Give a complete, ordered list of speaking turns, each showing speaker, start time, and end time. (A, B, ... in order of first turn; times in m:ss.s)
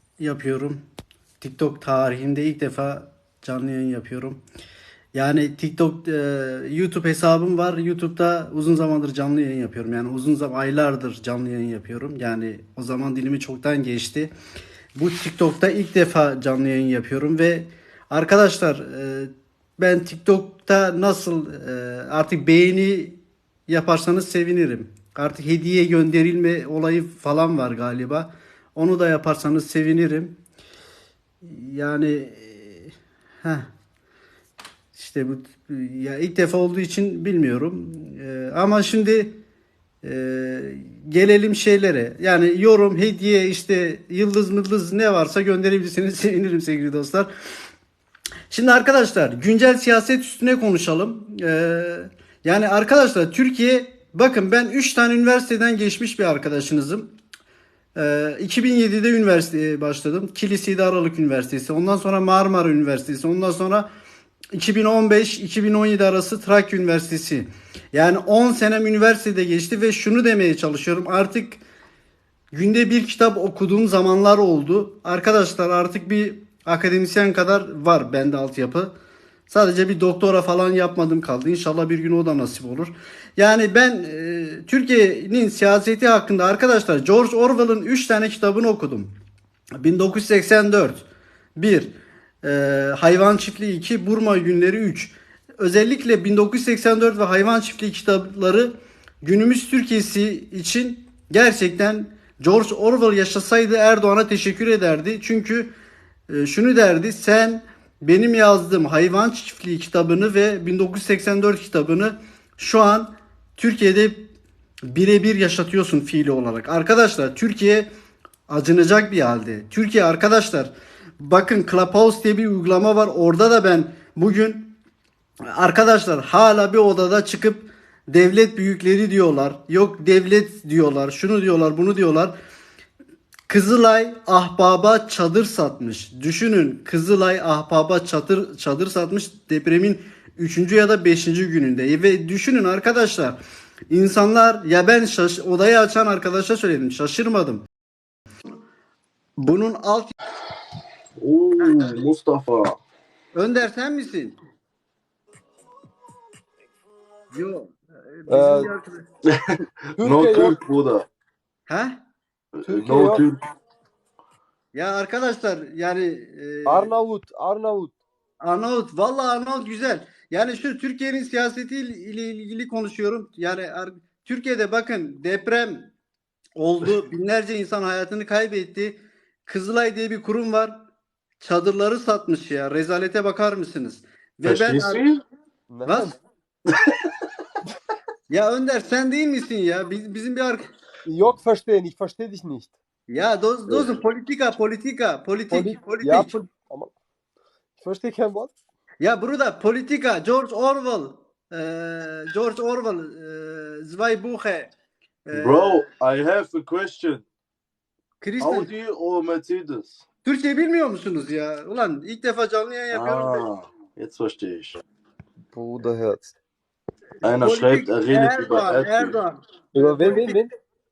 0:00.2-0:00.8 A
0:01.4-0:04.4 A
0:05.1-0:14.3 A
0:15.0-0:30.4 A
0:31.4-0:33.7 A
0:34.9-0:39.4 A
0:40.0-0:47.3 A
0:48.5-0:57.1 A
0:58.0-1:03.9 A
1:04.5-1:11.6 A
1:12.5-1:18.9 A
1:19.5-1:29.1 A
1:29.8-1:31.0 A
1:31.6-1:45.7 A
1:46.3-1:54.3 A
1:54.9-1:57.9 A
1:58.5-2:04.7 A
2:05.5-2:12.3 A
2:13.5-2:23.4 A
2:23.9-2:27.6 A
2:29.4-2:30.1 A
2:31.2-2:32.8 B
2:33.3-2:34.4 A
2:37.3-2:39.0 A
2:38.3-2:38.7 C
2:40.0-2:40.6 C
2:40.0-2:41.1 B
2:41.7-2:42.0 A
2:42.6-2:43.4 B
2:42.6-2:43.2 C
2:44.7-2:46.9 A
2:46.6-2:47.9 C
2:48.4-2:55.9 A
2:56.6-3:00.8 A
3:01.4-3:05.0 A
3:04.4-3:05.2 B
3:05.7-3:06.1 C
3:05.8-3:06.1 A
3:08.3-3:10.7 A
3:11.0-3:12.7 C
3:13.1-3:16.3 A
3:13.7-3:14.0 C
3:15.5-3:16.9 C
3:17.8-3:18.5 C
3:19.0-3:24.7 A
3:25.3-3:25.8 A
3:25.3-3:27.2 B
3:28.2-3:28.7 A
3:28.4-3:30.0 B
3:30.2-3:33.4 A
3:32.9-3:34.8 B
3:35.5-3:36.3 C
3:37.2-3:39.2 B
3:37.3-3:40.4 A
3:39.7-3:40.5 C